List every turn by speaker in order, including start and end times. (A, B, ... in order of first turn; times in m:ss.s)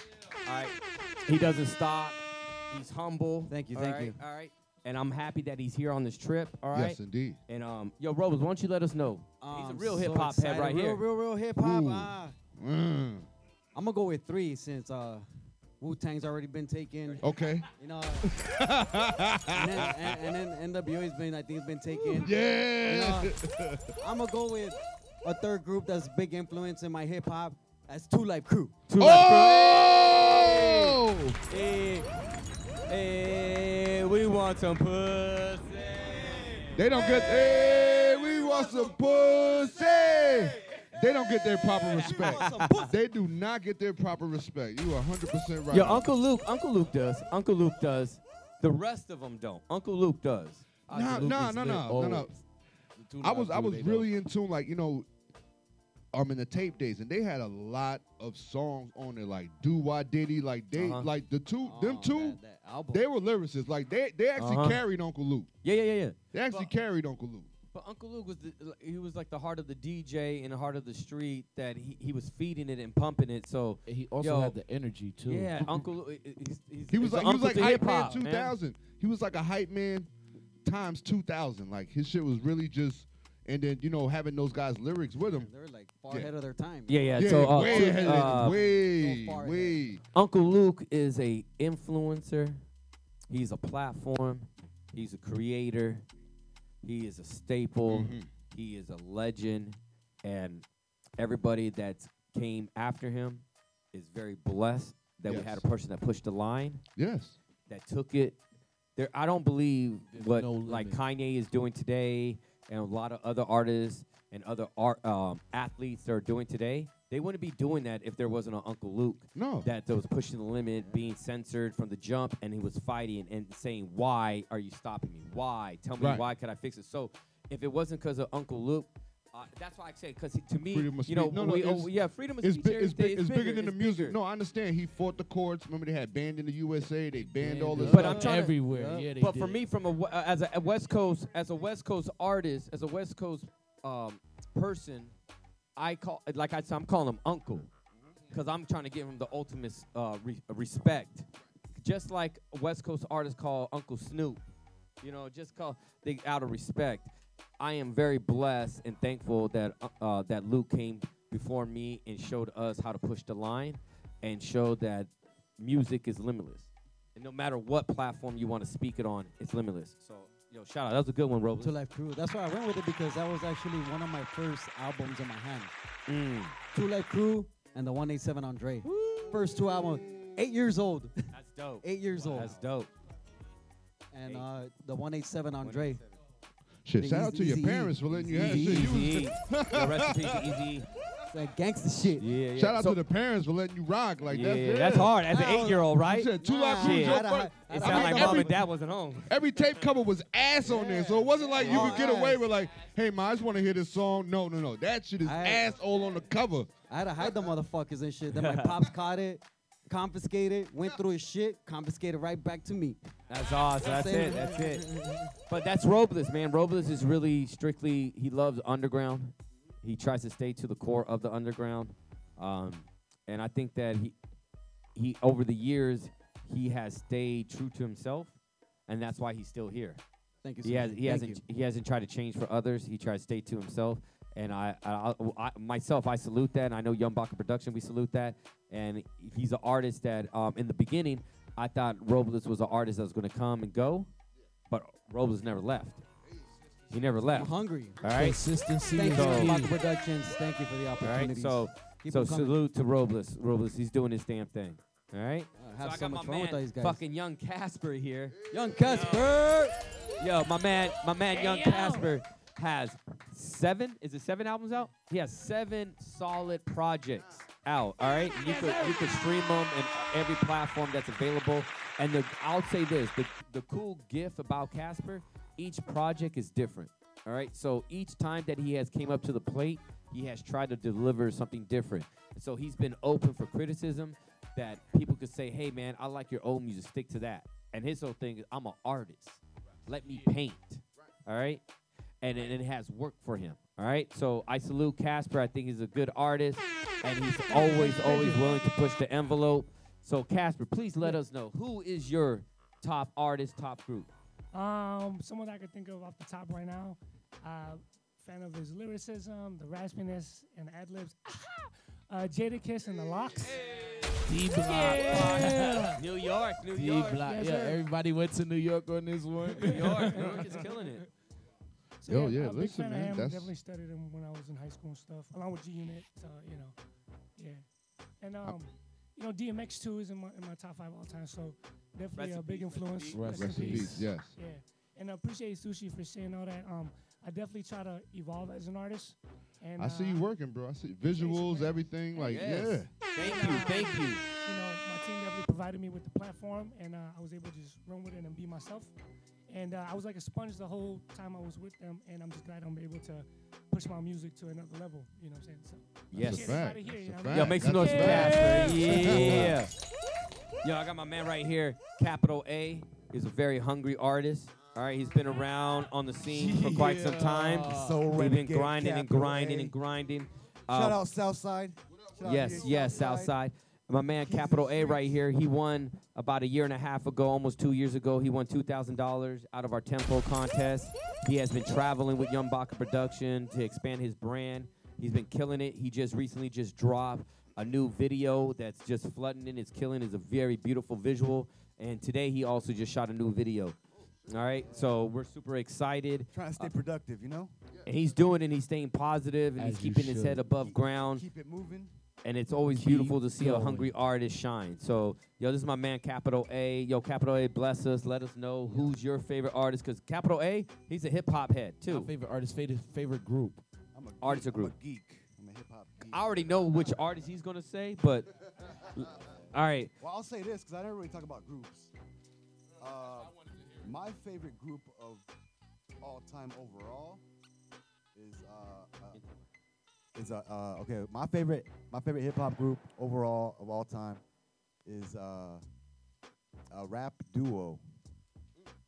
0:00.4-0:11.0 A
0:03.5-0:04.2 B
0:06.7-0:07.4 C
0:09.4-0:12.4 B
0:11.6-0:13.3 C
0:13.7-0:15.2 B
0:15.8-0:18.3 B
0:17.2-0:17.7 C
0:18.2-0:20.2 C
0:19.5-0:23.3 B
0:22.1-0:23.9 C
0:24.0-0:28.8 B
0:28.9-0:31.0 A
0:29.0-0:31.4 C
0:31.5-0:32.0 A
0:32.9-0:36.4 A
0:36.7-0:46.1 C
0:42.0-0:43.0 B
0:45.7-0:52.4 A
0:50.9-0:52.3 C
0:51.1-0:52.2 D
0:53.0-0:54.1 D
0:53.2-0:55.0 C
0:56.1-1:02.4 C
1:00.7-1:01.1 A
1:01.6-1:03.0 B
1:02.9-1:05.5 C
1:04.4-1:04.8 A
1:05.6-1:06.7 A
1:06.3-1:07.5 C
1:07.7-1:14.6 A
1:13.8-1:15.8 D
1:15.2-1:18.5 A
1:16.9-1:20.1 C
1:20.6-1:25.5 C
1:25.3-1:29.8 B
1:26.9-1:28.6 A
1:27.2-1:30.0 C
1:30.1-1:32.6 A
1:33.3-1:36.0 A
1:36.8-1:40.6 A
1:37.9-1:38.3 C
1:41.2-1:46.8 A
1:45.2-1:45.6 C
1:47.0-1:47.4 C
1:47.7-1:48.4 A
1:49.0-2:14.2 A
1:50.1-1:51.0 D
1:59.3-1:59.7 C
2:06.0-2:06.3 C
2:10.7-2:18.4 C
2:17.1-2:19.6 D
2:17.9-2:25.1 A
2:18.7-2:19.1 B
2:25.8-2:27.7 A
2:28.3-2:34.4 A
2:35.0-2:51.7 A
2:51.6-2:55.7 B
2:56.1-2:56.5 A
2:56.7-3:01.2 B
3:01.3-3:02.9 A
3:01.8-3:02.6 B
3:04.1-3:06.0 B
3:05.6-3:06.0 A
3:06.8-3:10.7 C
3:07.0-3:08.9 B
3:08.2-3:10.9 A
3:11.3-3:12.3 B
3:12.2-3:13.0 A
3:12.5-3:18.6 C
3:14.2-3:19.3 A
3:15.4-3:15.8 B
3:16.4-3:18.6 B
3:19.2-3:26.7 C
3:20.7-3:21.0 B
3:21.6-3:22.4 B
3:21.6-3:22.1 A
3:25.2-3:25.7 B
3:26.9-3:33.0 B
3:28.3-3:28.8 A
3:33.3-3:34.9 A
3:33.8-3:35.1 B
3:35.5-3:44.1 A
3:44.9-3:48.3 A
3:48.9-3:50.0 A
3:50.4-3:51.4 B
3:50.6-4:04.1 A
4:04.7-4:06.0 A
4:06.9-4:08.4 A
4:07.3-4:08.0 B
4:08.0-4:09.8 D
4:08.9-4:12.6 B
4:09.1-4:09.6 A
4:11.0-4:19.3 A
4:15.6-4:17.0 B
4:18.5-4:19.2 C
4:18.5-4:19.8 B
4:20.2-4:51.6 A
4:21.3-4:22.1 E
4:28.4-4:29.1 E
4:52.2-5:04.1 A
4:57.5-4:58.7 E
5:04.5-5:13.7 E
5:14.2-5:16.0 D
5:14.5-5:15.9 E
5:16.0-5:17.3 A
5:16.7-5:20.5 D
5:17.2-5:17.8 E
5:19.5-5:21.0 E
5:19.6-5:21.0 A
5:22.0-5:26.7 E
5:22.1-5:23.5 C
5:27.4-5:27.6 E
5:28.2-5:40.3 E
5:32.1-5:33.5 A
5:33.1-5:34.0 D
5:33.4-5:34.4 C
5:39.8-5:42.9 C
5:41.0-5:42.5 E
5:42.2-5:44.2 A
5:43.2-5:48.9 E
5:49.5-5:59.6 E
5:56.1-5:56.7 A
5:56.1-5:59.6 C
5:57.3-5:59.7 A
6:00.6-6:11.0 A
6:06.4-6:08.0 D
6:07.6-6:09.7 F
6:10.7-6:13.3 F
6:12.2-6:33.8 A
6:14.2-6:15.2 F
6:34.3-6:36.7 A
6:34.7-6:35.0 F
6:36.3-6:37.5 F
6:37.8-6:41.2 A
6:39.6-6:40.5 D
6:40.5-6:41.9 F
6:42.2-6:52.1 A
6:42.6-6:43.9 D
6:51.9-6:53.6 D
6:53.9-6:57.0 F
6:54.2-6:54.7 A
6:56.1-6:58.3 A
6:58.9-6:59.9 A
6:58.9-7:01.9 F
7:02.8-7:05.3 F
7:06.0-7:07.2 F
7:08.1-7:09.2 F
7:10.1-7:14.2 F
7:14.8-7:15.6 F
7:16.7-7:17.8 F